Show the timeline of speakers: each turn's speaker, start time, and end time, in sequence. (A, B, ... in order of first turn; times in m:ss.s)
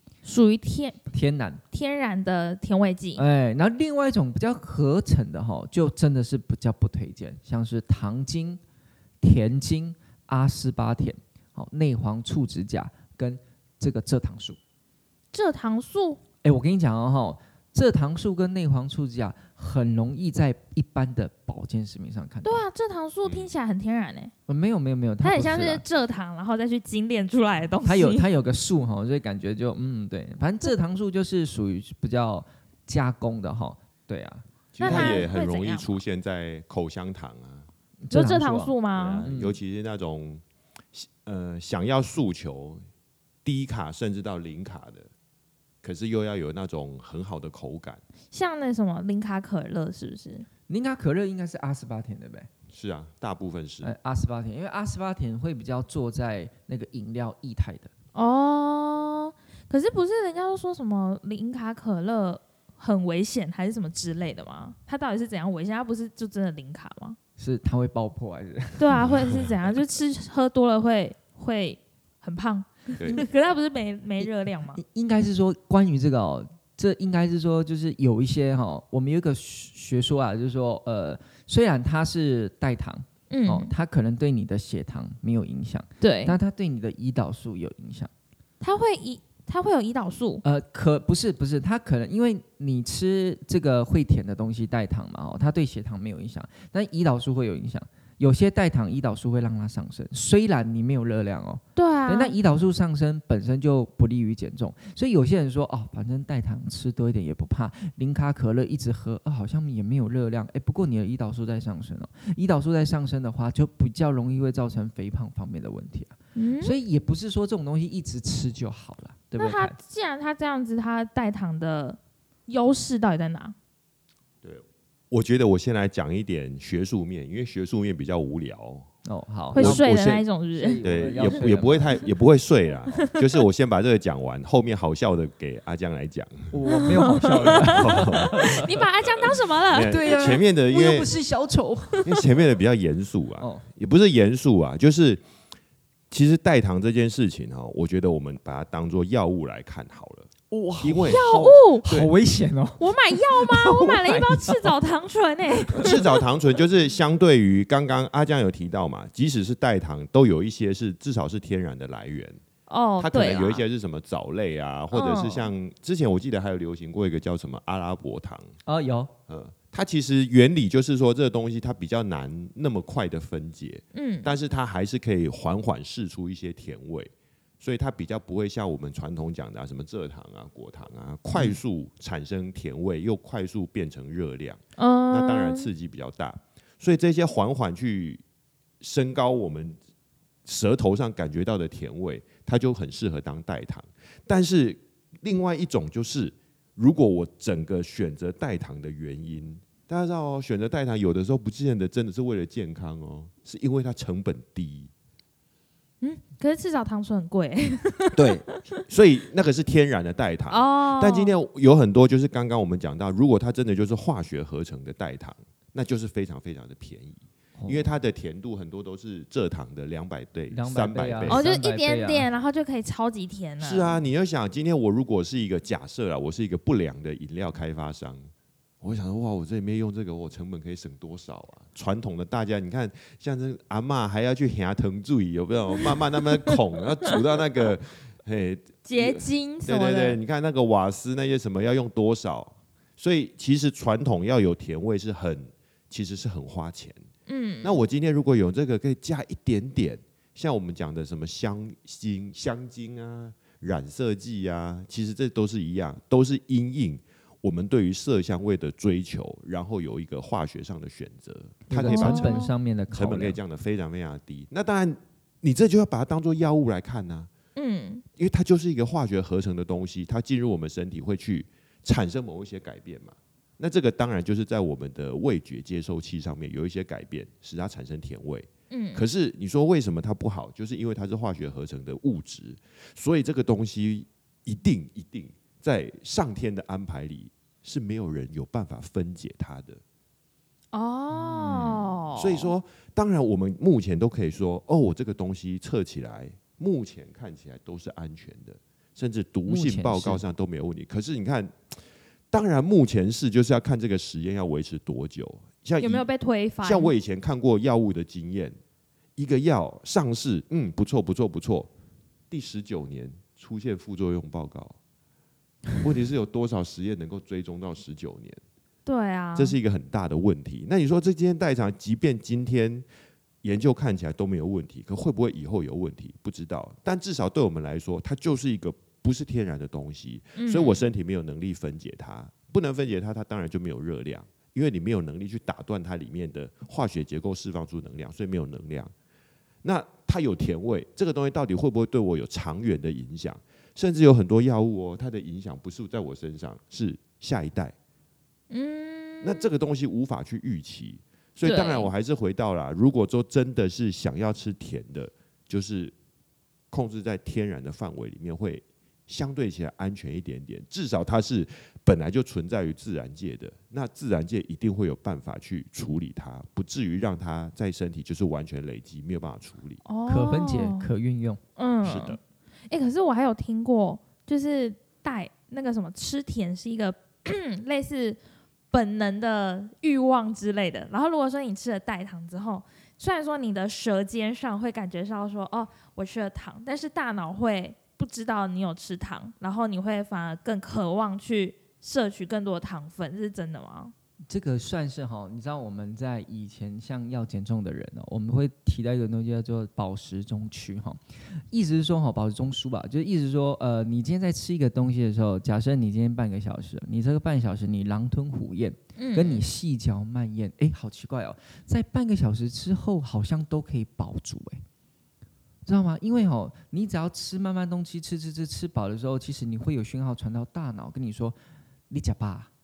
0:00.2-0:01.0 A
0:01.1-0:01.6 B
0:01.7-0:03.2 A
0:03.2-0:08.6 B
0:09.2-0:14.6 B
0:15.3-0:16.2 A
0:16.4-0:22.6 B
0:22.4-0:24.3 A
0:23.2-0:23.5 C
0:24.5-0:25.8 B
0:25.2-0:28.2 A
0:27.8-0:35.2 B
0:34.8-0:37.7 C
0:34.8-0:36.0 A
0:38.0-0:39.6 B
0:38.1-0:39.2 A
0:38.9-0:42.8 C
0:43.4-0:45.1 C
0:45.8-0:48.0 C
0:48.3-0:50.5 A
0:50.7-0:52.5 B
0:52.7-0:53.9 C
0:53.8-0:57.9 B
0:58.1-1:07.2 A
1:07.4-1:09.1 B
1:08.8-1:14.8 A
1:13.0-1:13.2 C
1:14.2-1:28.1 B
1:23.3-1:23.7 A
1:26.0-1:26.4 A
1:28.6-1:30.4 A
1:30.4-1:59.8 B
1:41.8-1:42.4 A
1:56.4-1:56.8 A
1:59.4-2:03.6 A
2:04.4-2:08.9 C
2:09.0-2:09.9 B
2:09.5-2:10.2 C
2:09.5-2:10.8 A
2:10.5-2:12.1 B
2:10.8-2:16.5 C
2:16.5-2:18.7 B
2:16.7-2:20.4 A
2:17.3-2:18.7 C
2:19.2-2:21.1 C
2:19.9-2:22.1 B
2:22.0-2:25.2 C
2:23.4-2:23.7 B
2:26.1-2:30.3 C
2:30.5-2:34.7 B
2:30.8-2:31.2 C
2:31.1-2:31.9 A
2:31.9-2:32.1 C
2:32.8-2:36.2 A
2:35.8-2:42.4 C
2:42.7-2:43.6 A
2:43.0-2:48.6 C
2:44.9-2:45.5 A
2:48.7-2:49.1 B
2:49.3-3:08.2 C
2:53.9-2:54.3 A
3:04.8-3:05.7 A
3:08.8-3:09.8 C
3:10.4-3:24.9 C
3:26.0-3:28.8 A
3:28.2-3:41.4 C
3:30.5-3:31.3 A
3:37.6-3:37.9 B
3:40.5-3:42.3 B
3:41.3-3:44.0 A
3:43.6-3:48.3 C
3:48.8-4:07.0 C
3:58.8-4:00.2 A
4:07.3-4:07.8 A
4:07.6-4:27.3 C
4:21.7-4:23.4 B
4:21.8-4:22.5 A
4:27.6-4:28.0 A
4:28.2-4:49.8 C
4:38.7-4:39.1 A
4:50.7-4:52.5 A
4:51.1-4:51.9 B
4:51.5-5:01.8 C
4:59.5-5:00.2 B
5:02.3-5:06.1 C
5:05.8-5:06.9 A
5:06.6-5:08.6 C
5:09.2-5:11.7 C
5:12.3-5:14.8 C
5:15.8-5:18.4 C
5:18.9-5:19.6 A
5:19.4-5:22.9 C
5:23.4-5:38.9 C
5:30.4-5:30.8 A
5:39.6-5:47.8 C
5:48.5-5:49.5 A
5:49.2-5:55.9 C
5:51.4-5:51.9 A
5:56.7-6:09.8 C
6:09.8-6:10.9 A
6:10.1-6:11.4 B
6:11.6-6:12.2 A
6:11.8-6:12.2 C
6:12.7-6:18.2 A
6:18.7-6:33.9 A
6:34.3-6:54.6 B
6:49.0-6:49.4 A
6:55.6-7:01.4 B
7:01.9-7:02.5 B